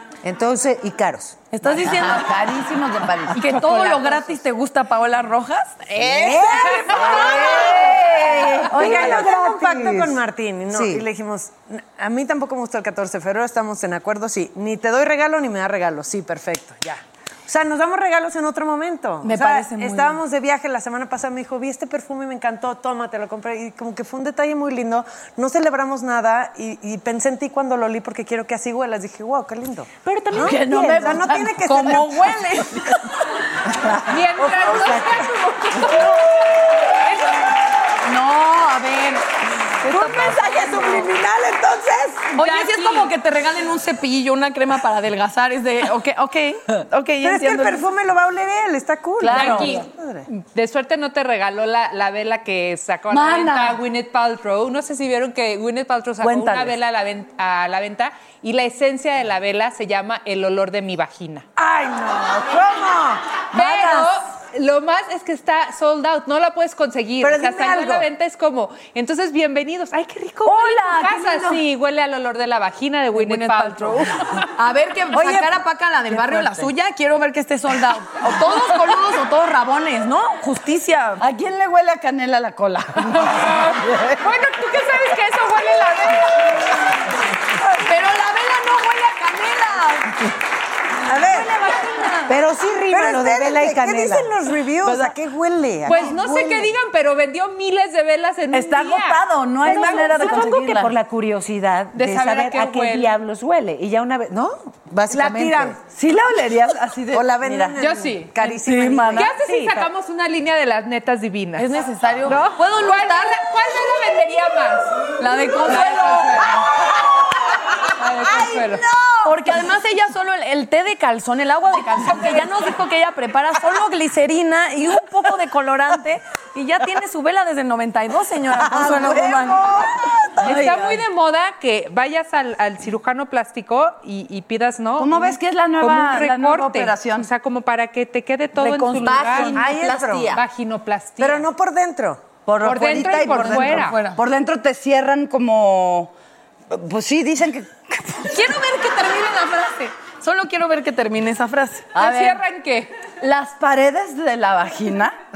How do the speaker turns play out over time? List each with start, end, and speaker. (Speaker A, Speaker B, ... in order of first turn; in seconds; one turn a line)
Speaker A: 0.2-1.4
Speaker B: 1.5-2.5
Speaker C: 1.6-4.2
Speaker B: 3.3-7.7
Speaker A: 6.0-8.0
Speaker C: 6.0-6.4
Speaker D: 6.6-7.0
Speaker C: 6.9-9.2
Speaker A: 8.7-11.1
Speaker E: 8.7-32.4
Speaker B: 19.2-20.2
Speaker C: 30.3-33.0
Speaker B: 31.6-32.8
Speaker C: 33.7-35.1
Speaker D: 34.1-36.4
Speaker B: 38.0-39.3
Speaker B: 39.8-41.1
Speaker E: 39.8-42.3
Speaker B: 42.3-47.8
Speaker D: 42.4-43.1
Speaker E: 47.2-50.2
Speaker C: 49.3-49.8
Speaker D: 49.3-61.5
Speaker B: 49.3-49.8
Speaker C: 53.1-53.8
Speaker C: 56.2-56.7
Speaker E: 61.6-63.1
Speaker D: 63.5-74.5
Speaker C: 63.5-64.1
Speaker E: 67.2-68.1
Speaker C: 70.5-71.6
Speaker B: 73.1-81.2
Speaker C: 76.2-76.6
Speaker C: 81.2-84.2
Speaker D: 83.2-86.6
Speaker B: 87.7-90.1
Speaker E: 91.0-91.5
Speaker B: 91.2-92.2
Speaker A: 92.3-94.3
Speaker E: 92.9-96.7
Speaker D: 95.8-100.6
Speaker C: 98.5-101.0
Speaker A: 99.6-105.8
Speaker D: 101.9-103.1
Speaker E: 105.1-105.8
Speaker C: 105.9-107.7
Speaker E: 107.1-109.9
Speaker D: 107.8-108.6
Speaker C: 108.6-109.4
Speaker D: 109.2-111.7
Speaker B: 111.6-113.4
Speaker D: 112.2-116.6
Speaker B: 115.2-116.4
Speaker D: 118.0-118.8
Speaker C: 118.2-119.3
Speaker B: 119.2-129.7
Speaker D: 122.0-122.4
Speaker C: 128.6-131.0
Speaker D: 130.4-141.5
Speaker C: 135.0-137.3
Speaker B: 138.5-139.6
Speaker C: 139.0-140.4
Speaker E: 139.6-140.2
Speaker E: 141.2-142.2
Speaker C: 142.4-146.1
Speaker D: 142.6-144.0
Speaker B: 143.0-144.2
Speaker C: 146.7-148.2
Speaker B: 148.2-151.9
Speaker C: 151.9-152.4
Speaker D: 152.0-152.9
Speaker C: 153.2-155.2